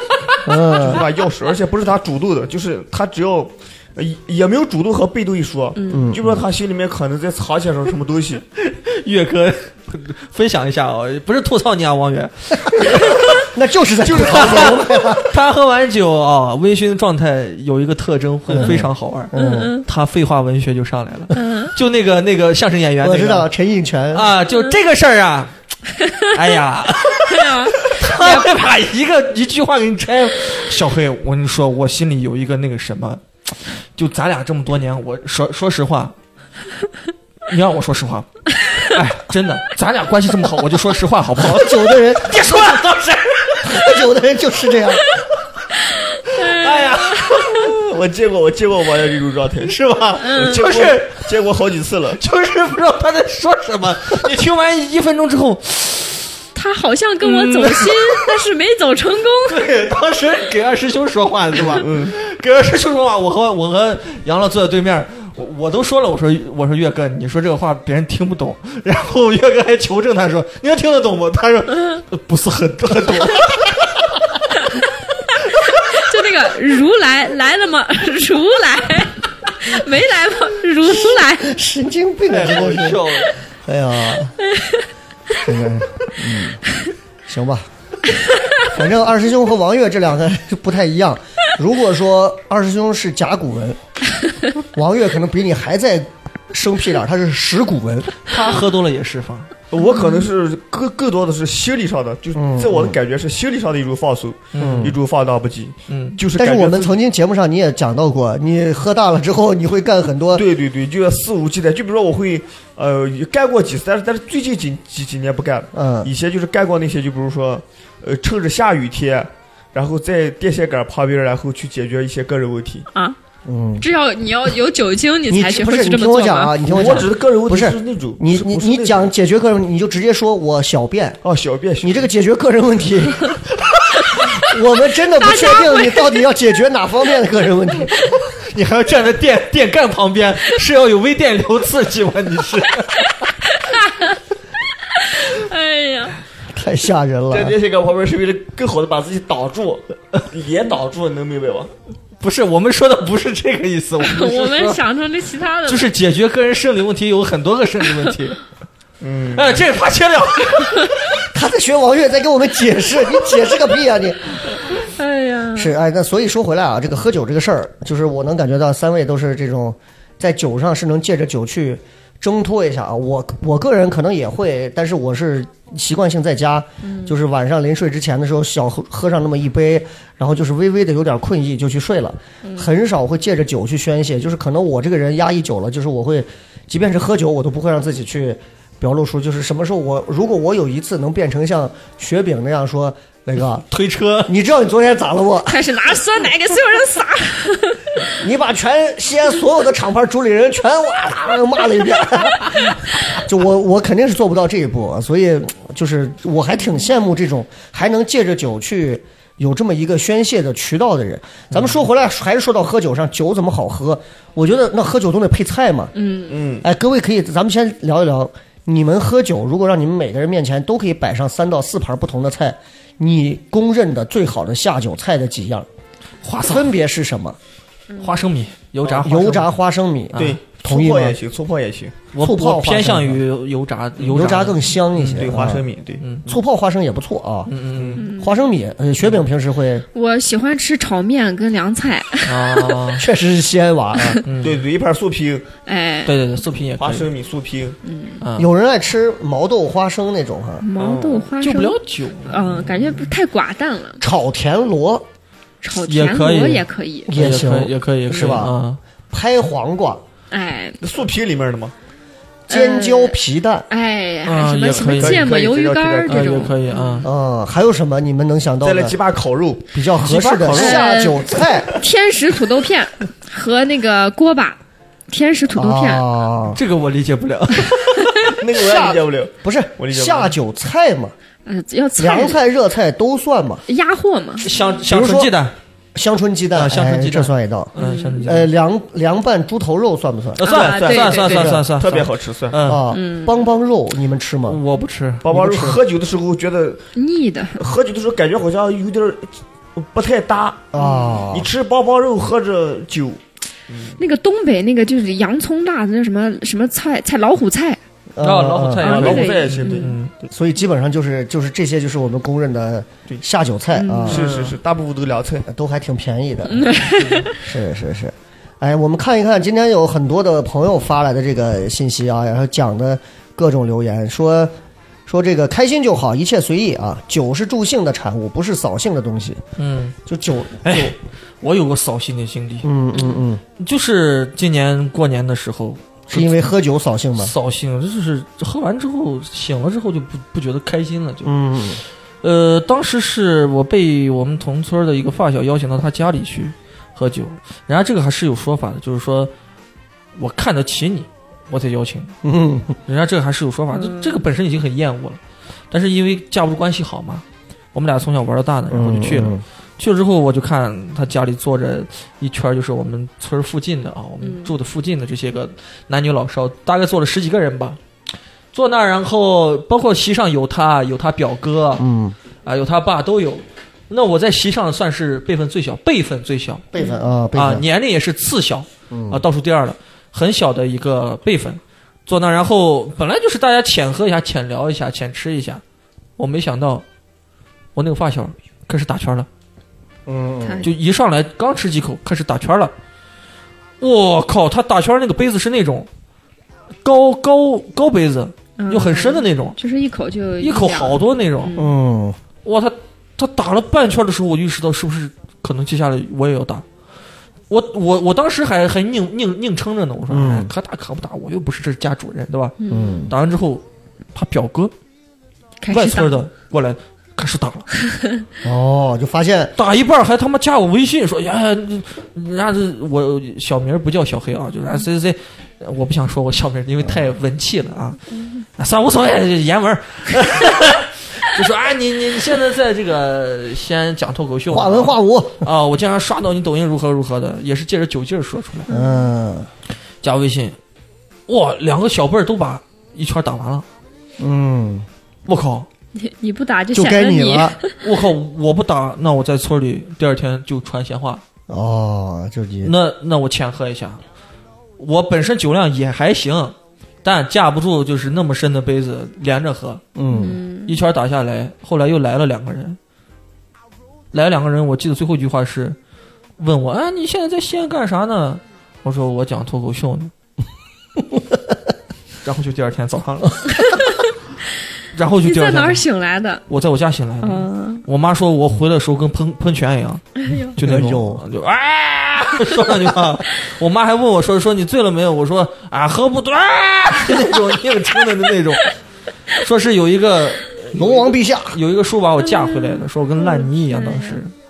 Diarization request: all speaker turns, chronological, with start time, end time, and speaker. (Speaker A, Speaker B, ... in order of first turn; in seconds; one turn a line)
Speaker A: 0.4-1.0
Speaker B: 0.7-8.4
Speaker C: 5.8-6.1
Speaker A: 5.9-6.5
Speaker D: 8.6-13.3
Speaker A: 12.7-15.3
Speaker B: 14.1-14.8
Speaker D: 14.1-19.3
Speaker A: 18.5-19.8
Speaker C: 19.3-19.9
Speaker D: 19.8-23.5
Speaker C: 21.4-21.7
Speaker A: 23.0-24.3
Speaker D: 24.1-25.5
Speaker D: 26.3-36.1
Speaker C: 27.3-28.5
Speaker D: 37.5-43.9
Speaker A: 41.4-42.8
Speaker A: 43.6-45.1
Speaker C: 46.1-47.4
Speaker D: 46.3-47.7
Speaker B: 47.7-52.2
Speaker D: 49.6-51.3
Speaker C: 50.2-50.6
Speaker D: 52.2-56.4
Speaker C: 56.5-59.6
Speaker D: 57.2-58.3
Speaker D: 59.5-74.5
Speaker B: 61.7-62.1
Speaker C: 75.7-81.5
Speaker A: 80.8-84.4
Speaker D: 82.3-83.3
Speaker C: 84.5-84.8
Speaker A: 85.4-86.6
Speaker A: 87.3-87.7
Speaker A: 88.7-93.8
Speaker A: 94.7-98.4
Speaker D: 98.3-99.5
Speaker B: 99.7-107.0
Speaker C: 99.8-100.3
Speaker A: 102.3-103.0
Speaker D: 104.5-104.9
Speaker A: 104.6-105.0
Speaker D: 105.9-106.2
Speaker A: 106.3-110.5
Speaker B: 110.3-122.9
Speaker A: 115.7-116.1
Speaker A: 123.5-123.9
Speaker C: 123.8-126.6
Speaker A: 125.3-131.2
Speaker B: 126.6-129.1
Speaker B: 131.2-132.1
Speaker A: 131.8-133.4
Speaker A: 134.3-138.0
Speaker C: 135.2-136.2
Speaker D: 138.4-143.1
Speaker C: 143.7-144.2
Speaker C: 144.9-146.2
Speaker A: 146.5-147.6
Speaker B: 147.3-151.7
Speaker D: 152.2-154.8
Speaker C: 154.0-155.9
Speaker D: 155.7-158.4
Speaker B: 159.0-159.7
Speaker D: 159.3-160.9
Speaker A: 161.3-164.4
Speaker C: 164.8-165.7
Speaker A: 165.6-193.7
Speaker C: 176.8-177.2
Speaker C: 182.4-182.7
Speaker D: 193.7-194.3
Speaker A: 194.3-195.6
Speaker C: 195.5-197.8
Speaker A: 198.2-215.9
Speaker C: 215.9-216.4
Speaker B: 216.3-216.7
Speaker A: 216.6-225.7
Speaker D: 226.2-226.7
Speaker A: 226.5-227.4
Speaker D: 228.0-229.5
Speaker A: 228.9-231.2
Speaker D: 230.1-230.4
Speaker B: 230.2-232.0
Speaker D: 232.1-235.4
Speaker A: 232.2-233.2
Speaker A: 234.0-235.7
Speaker B: 235.1-236.4
Speaker D: 236.0-236.3
Speaker A: 236.3-237.5
Speaker D: 237.5-238.1
Speaker B: 237.8-238.1
Speaker C: 238.0-238.4
Speaker A: 238.2-239.9
Speaker C: 239.9-242.6
Speaker D: 242.2-243.0
Speaker A: 242.9-244.2
Speaker D: 244.2-244.6
Speaker B: 244.4-245.5
Speaker C: 245.7-246.1
Speaker D: 246.1-247.1
Speaker B: 246.8-247.8
Speaker C: 247.8-248.2
Speaker D: 248.2-248.5
Speaker A: 248.4-250.7
Speaker C: 250.6-254.0
Speaker B: 250.8-251.3
Speaker D: 251.4-252.4
Speaker A: 254.0-255.1
Speaker C: 255.6-257.1
Speaker D: 255.8-258.8
Speaker A: 257.1-258.6
Speaker A: 259.1-260.0
Speaker C: 260.3-260.8
Speaker B: 260.8-261.7
Speaker A: 262.5-263.7
Speaker C: 262.5-267.1
Speaker D: 264.2-265.3
Speaker B: 264.9-266.5
Speaker D: 266.1-267.1
Speaker A: 267.0-269.0
Speaker B: 268.6-269.7
Speaker A: 269.7-271.8
Speaker D: 270.0-270.9
Speaker C: 270.5-276.1
Speaker A: 275.5-276.6
Speaker D: 276.5-278.4
Speaker B: 278.3-280.4
Speaker A: 278.5-281.1
Speaker C: 281.5-282.4
Speaker A: 282.0-283.6
Speaker C: 283.7-284.5
Speaker D: 284.4-285.6
Speaker A: 284.9-285.4
Speaker A: 285.9-290.5
Speaker D: 286.5-288.5
Speaker C: 287.8-288.3
Speaker D: 290.4-292.8
Speaker C: 290.4-291.6
Speaker B: 290.5-292.6
Speaker A: 292.6-294.6
Speaker C: 292.9-293.5
Speaker D: 294.4-295.8
Speaker B: 295.2-296.9
Speaker C: 297.0-297.6
Speaker B: 297.6-300.7
Speaker A: 300.7-301.5
Speaker C: 300.8-301.3
Speaker B: 301.3-304.0
Speaker C: 304.0-307.8
Speaker A: 308.1-308.9
Speaker D: 308.2-310.1
Speaker C: 308.8-310.0
Speaker B: 308.8-310.3
Speaker A: 310.3-314.3
Speaker C: 313.7-314.2
Speaker B: 314.1-315.5
Speaker D: 314.1-314.6
Speaker A: 315.5-316.7
Speaker C: 316.5-317.4
Speaker A: 317.3-324.5
Speaker A: 325.1-329.4
Speaker D: 329.6-329.9
Speaker A: 330.1-330.9
Speaker D: 330.6-332.7
Speaker A: 332.6-333.4
Speaker C: 332.9-333.2
Speaker D: 333.6-336.4
Speaker A: 336.1-337.3
Speaker D: 337.2-341.6
Speaker A: 341.2-341.8
Speaker D: 342.2-349.3
Speaker D: 350.2-352.1
Speaker A: 352.2-352.8
Speaker D: 352.9-355.2
Speaker C: 353.7-354.2
Speaker D: 355.7-367.8
Speaker A: 358.7-359.4
Speaker C: 364.2-364.5
Speaker D: 368.5-371.9
Speaker A: 371.8-372.2
Speaker D: 372.4-376.7
Speaker A: 376.7-377.6
Speaker C: 376.8-377.1
Speaker D: 377.3-385.6
Speaker A: 378.9-379.2
Speaker D: 386.2-386.9
Speaker D: 387.8-389.3
Speaker A: 390.1-390.7
Speaker C: 390.4-390.7
Speaker D: 390.6-392.7
Speaker D: 393.8-395.9
Speaker D: 396.8-399.6
Speaker C: 398.6-401.8
Speaker D: 400.4-401.5
Speaker A: 401.6-402.2
Speaker D: 402.4-406.6
Speaker D: 407.5-412.6
Speaker A: 410.1-410.5
Speaker C: 412.6-413.1
Speaker A: 412.7-413.1
Speaker D: 413.1-414.7
Speaker C: 415.6-416.2
Speaker D: 415.7-417.7
Speaker A: 418.4-419.5
Speaker D: 419.6-428.0
Speaker D: 428.6-438.7
Speaker A: 434.5-435.5
Speaker C: 438.7-439.1
Speaker A: 438.7-439.5
Speaker D: 440.0-440.6
Speaker D: 441.3-443.7
Speaker A: 444.2-444.9
Speaker D: 445.3-445.7
Speaker C: 445.9-447.8
Speaker A: 446.7-447.6
Speaker D: 447.8-451.2
Speaker A: 451.5-452.7
Speaker D: 452.6-454.0
Speaker D: 454.8-459.8
Speaker A: 459.9-460.4
Speaker C: 460.1-460.8
Speaker D: 460.7-462.8
Speaker D: 464.1-465.8
Speaker D: 466.4-470.1
Speaker D: 472.2-473.5
Speaker C: 473.5-474.1
Speaker D: 474.9-475.8
Speaker C: 475.2-476.4
Speaker D: 476.5-488.7
Speaker C: 477.2-477.8
Speaker C: 480.2-480.6
Speaker A: 480.6-481.2
Speaker D: 489.3-494.3
Speaker A: 490.7-491.6
Speaker C: 492.2-494.2